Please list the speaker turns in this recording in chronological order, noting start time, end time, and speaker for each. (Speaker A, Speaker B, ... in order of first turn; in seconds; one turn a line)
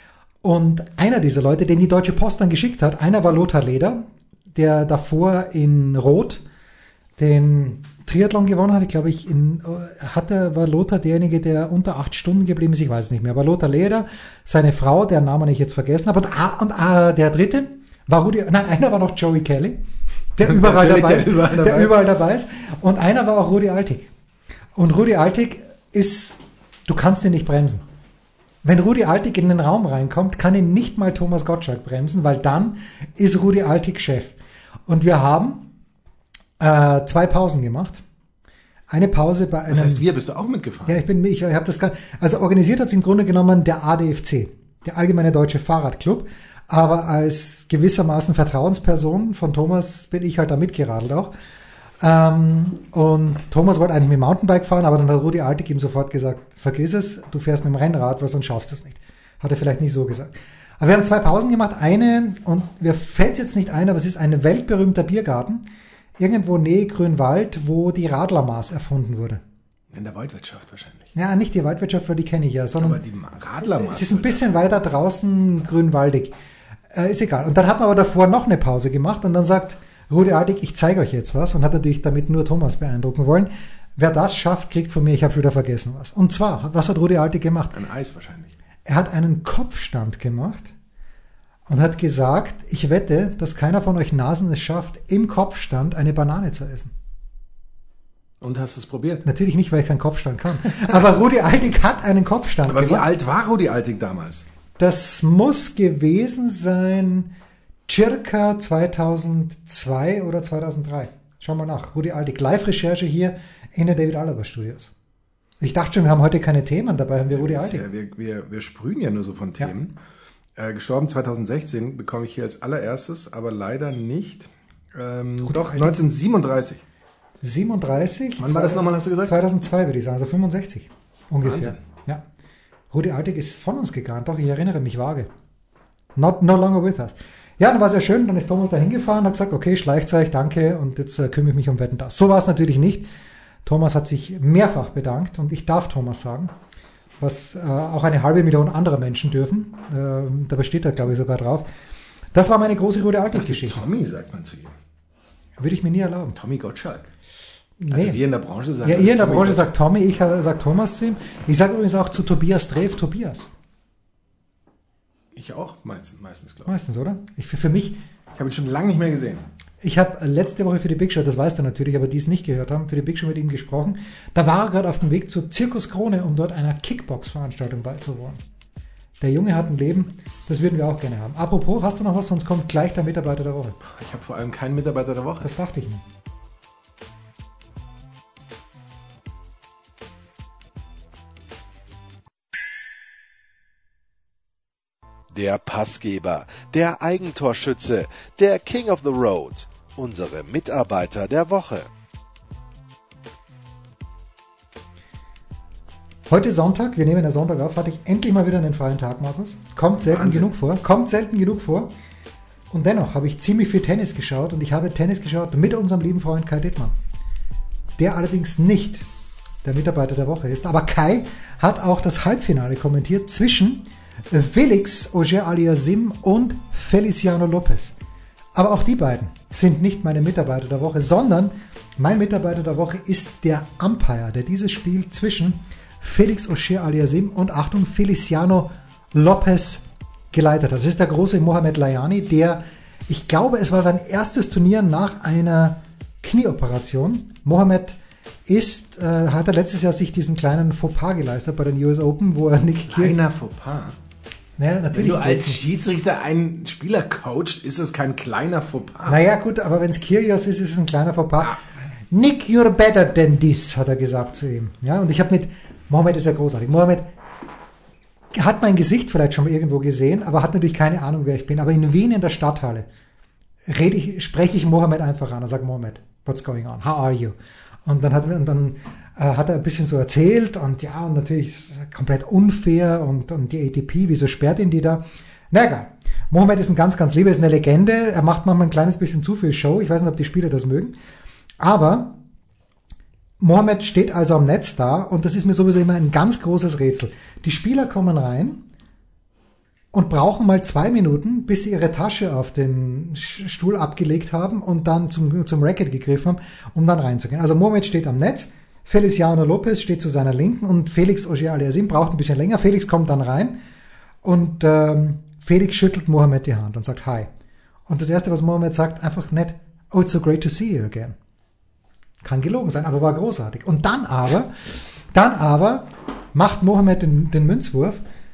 Speaker A: 0.4-6.4
Speaker A: 7.2-19.8
Speaker A: 20.3-24.1
Speaker B: 20.4-22.0
Speaker A: 24.8-27.8
Speaker A: 28.6-34.4
Speaker A: 34.9-35.6
Speaker A: 36.6-38.0
Speaker A: 38.9-40.0
Speaker B: 39.7-41.0
Speaker A: 40.9-51.3
Speaker A: 52.0-65.6
Speaker A: 66.2-69.4
Speaker B: 69.9-71.1
Speaker A: 71.1-73.0
Speaker B: 72.8-74.4
Speaker A: 73.6-76.3
Speaker A: 76.9-87.8
Speaker B: 87.7-88.5
Speaker A: 88.8-90.7
Speaker A: 91.7-96.9
Speaker B: 98.4-99.2
Speaker A: 99.2-103.0
Speaker B: 102.6-104.4
Speaker A: 104.8-107.3
Speaker A: 107.9-114.9
Speaker A: 115.6-117.8
Speaker B: 117.3-120.0
Speaker B: 120.5-126.8
Speaker A: 125.4-126.0
Speaker A: 127.4-132.2
Speaker B: 128.4-129.3
Speaker B: 131.4-131.8
Speaker A: 132.9-135.3
Speaker A: 136.2-143.1
Speaker A: 143.6-146.5
Speaker A: 147.2-151.7
Speaker A: 152.3-153.8
Speaker B: 153.3-154.7
Speaker A: 155.6-156.3
Speaker B: 156.3-157.1
Speaker A: 157.8-158.2
Speaker B: 157.9-159.7
Speaker A: 158.8-163.5
Speaker B: 165.3-166.8
Speaker A: 166.7-168.0
Speaker B: 168.3-169.4
Speaker A: 169.8-178.4
Speaker A: 179.2-183.8
Speaker B: 183.8-185.5
Speaker A: 185.4-186.0
Speaker C: 195.3-201.9
Speaker A: 206.3-211.9
Speaker B: 210.0-210.5
Speaker A: 212.7-216.9
Speaker A: 218.0-219.1
Speaker A: 219.6-227.9
Speaker A: 228.5-253.2
Speaker B: 252.9-254.0
Speaker A: 254.6-255.6
Speaker B: 254.9-259.2
Speaker A: 259.1-261.6
Speaker A: 262.1-267.1
Speaker A: 268.3-272.9
Speaker A: 273.6-277.3
Speaker A: 277.9-290.9
Speaker A: 291.6-292.1
Speaker A: 293.4-298.6
Speaker A: 299.9-313.6
Speaker A: 314.2-317.3
Speaker A: 317.9-321.1
Speaker A: 322.2-328.0